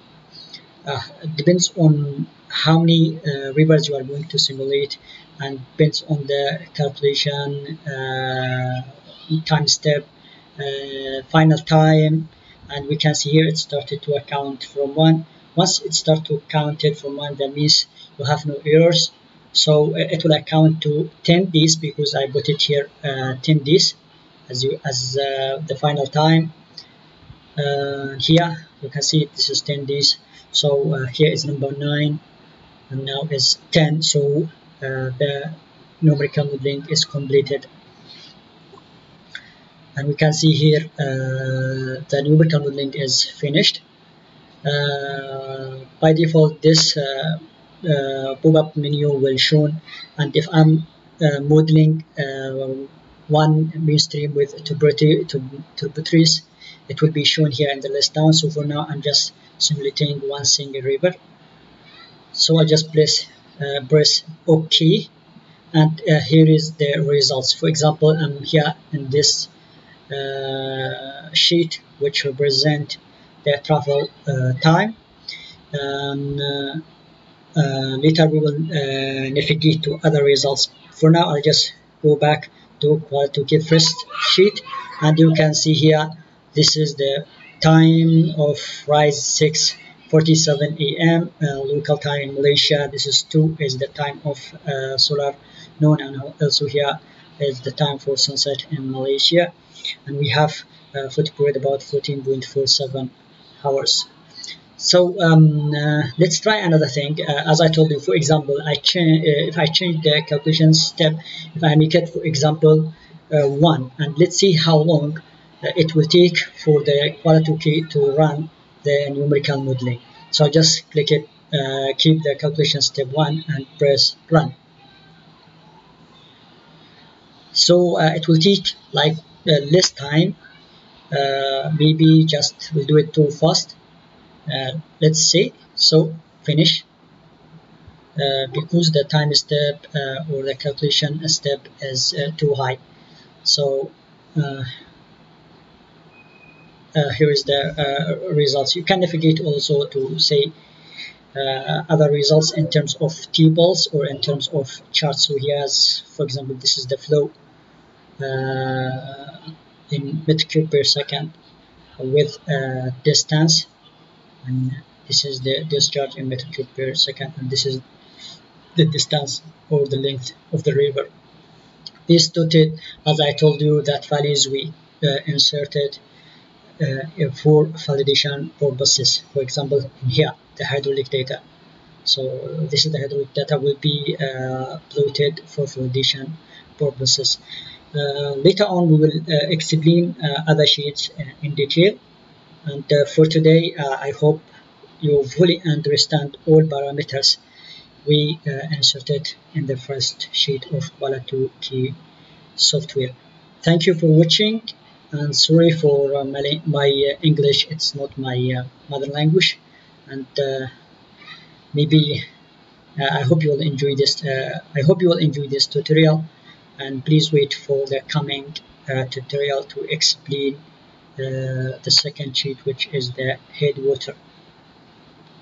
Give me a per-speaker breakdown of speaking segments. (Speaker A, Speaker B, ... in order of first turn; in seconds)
Speaker A: 0.8-10.1, 10.6-24.0, 24.5-26.5, 27.6-32.2, 32.9-37.7, 40.0-43.8, 44.6-61.1, 62.3-65.1, 65.7-69.5, 70.1-75.0, 75.7-76.8, 77.5-99.5, 100.0-104.1, 104.8-124.5, 127.5-130.4, 131.1-133.8, 134.5-136.9, 138.2-142.8, 143.4-144.7, 146.9-150.5, 151.3-157.3, 158.2-161.3, 162.0-163.7, 164.4-167.8, 168.8-171.1, 172.1-176.0, 176.8-181.4, 182.1-187.4, 187.9-192.0, 192.6-194.5, 195.0-197.4, 198.0-202.0, 202.6-210.7, 211.7-212.2, 213.0-216.3, 216.8-220.6, 221.2-224.2